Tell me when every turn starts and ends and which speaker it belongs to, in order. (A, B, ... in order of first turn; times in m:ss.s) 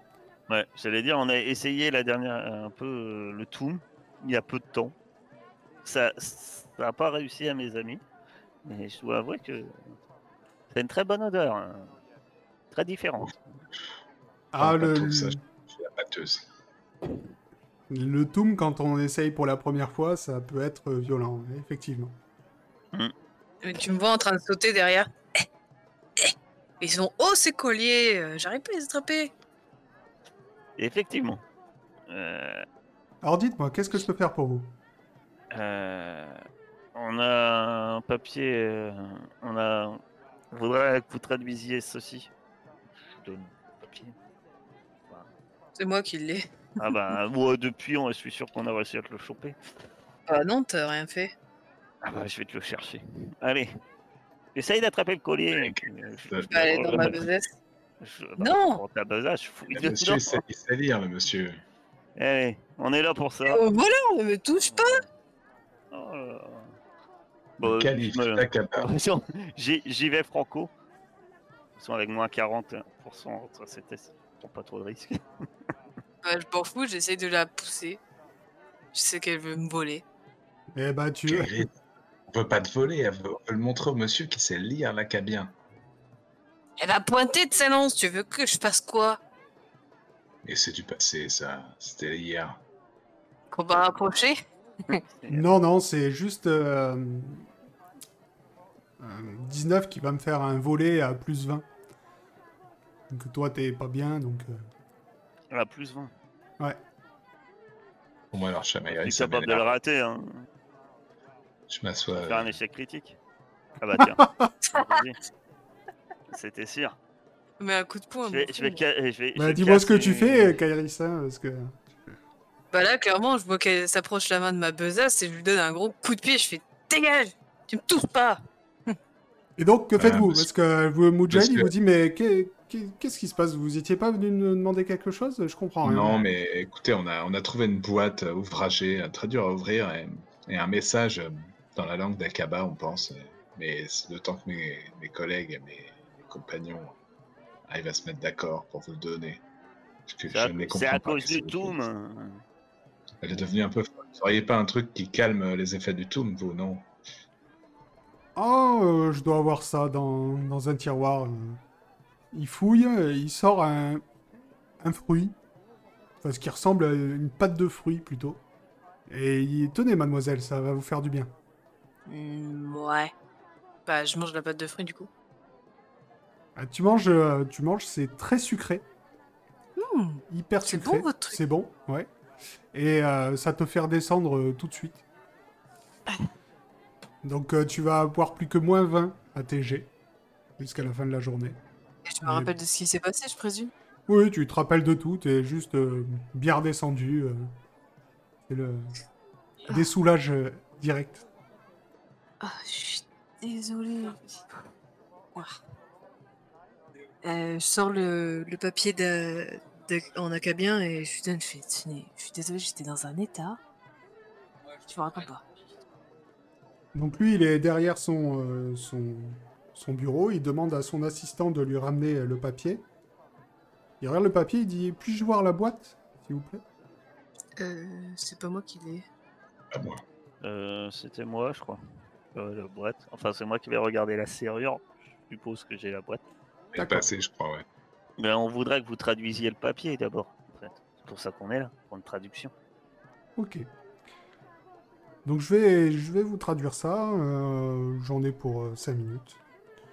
0:00.5-0:04.9 A
0:05.8-0:08.0 A
0:08.6-0:09.9 A
0:10.7-0:11.9 A
0:12.7-0:13.6 A
0:14.5-0:15.4 B
0:14.6-0:16.4 C
0:17.9-0:22.2 B
0:23.6-0:25.4 D
0:26.2-0:29.3 D
0:30.8-0:31.4 A
0:32.1-0:32.6 A
0:33.2-0:34.7 B
0:35.5-0:36.4 A
0:36.9-0:40.0 A
0:40.5-0:42.3 A
0:43.0-0:44.1 A
0:45.8-0:47.0 D
0:46.8-0:49.6 A
0:50.3-0:51.3 D
0:52.0-0:53.7 A
0:54.5-0:57.2 A
0:55.5-0:57.1 C
0:56.5-0:57.5 D
0:58.0-1:00.4 A
0:58.4-0:58.8 D
0:59.7-1:01.6 C
1:02.2-1:03.6 A
1:03.5-1:05.0 D
1:04.7-1:05.1 A
1:05.9-1:06.7 A
1:07.6-1:10.7 A
1:07.6-1:08.9 C
1:11.8-1:15.2 A
1:16.2-1:18.0 D
1:18.9-1:20.0 D
1:20.7-1:21.6 B
1:21.3-1:21.7 C
1:22.3-1:25.5 C
1:26.8-1:29.2 D
1:30.4-1:32.6 C
1:33.5-1:34.4 D
1:35.3-1:37.5 B
1:39.0-1:41.6 B
1:43.1-1:44.6 B
1:45.5-1:46.1 A
1:48.3-1:49.7 C
1:49.0-1:50.5 A
1:51.7-1:52.5 C
1:52.2-1:53.2 A
1:53.8-1:55.2 A
1:54.0-1:54.5 B
1:56.3-1:57.0 A
1:57.6-1:58.8 D
1:58.3-2:00.6 A
1:59.4-2:02.1 B
2:02.7-2:08.9 D
2:09.6-2:16.2 B
2:10.0-2:10.5 C
2:11.3-2:11.7 C
2:15.8-2:27.0 C
2:27.7-2:29.4 C
2:30.1-2:31.7 C
2:30.3-2:32.4 A
2:33.2-2:36.9 C
2:38.4-2:41.6 B
2:42.3-2:44.0 B
2:44.8-2:45.4 B
2:46.2-2:48.4 B
2:49.1-2:51.3 B
2:52.1-2:53.1 D
2:53.8-2:55.1 D
2:56.6-2:58.8 B
2:59.8-3:01.4 D
3:00.3-3:02.1 B
3:02.7-3:05.0 B
3:07.2-3:09.9 B
3:10.6-3:11.6 B
3:12.0-3:13.7 D
3:12.2-3:12.5 B
3:14.1-3:17.5 B
3:18.5-3:18.9 B
3:19.7-3:21.2 B
3:22.4-3:24.4 D
3:27.2-3:33.6 D
3:34.8-3:35.4 D
3:36.9-3:42.8 B
3:44.0-3:46.6 B
3:47.6-3:49.1 D
3:49.7-3:50.0 C
3:50.4-3:51.8 A
3:52.3-3:56.2 A
3:56.7-3:57.6 C
3:56.8-3:57.1 B
3:58.2-4:02.5 A
4:03.4-4:03.7 B
4:05.2-4:09.4 B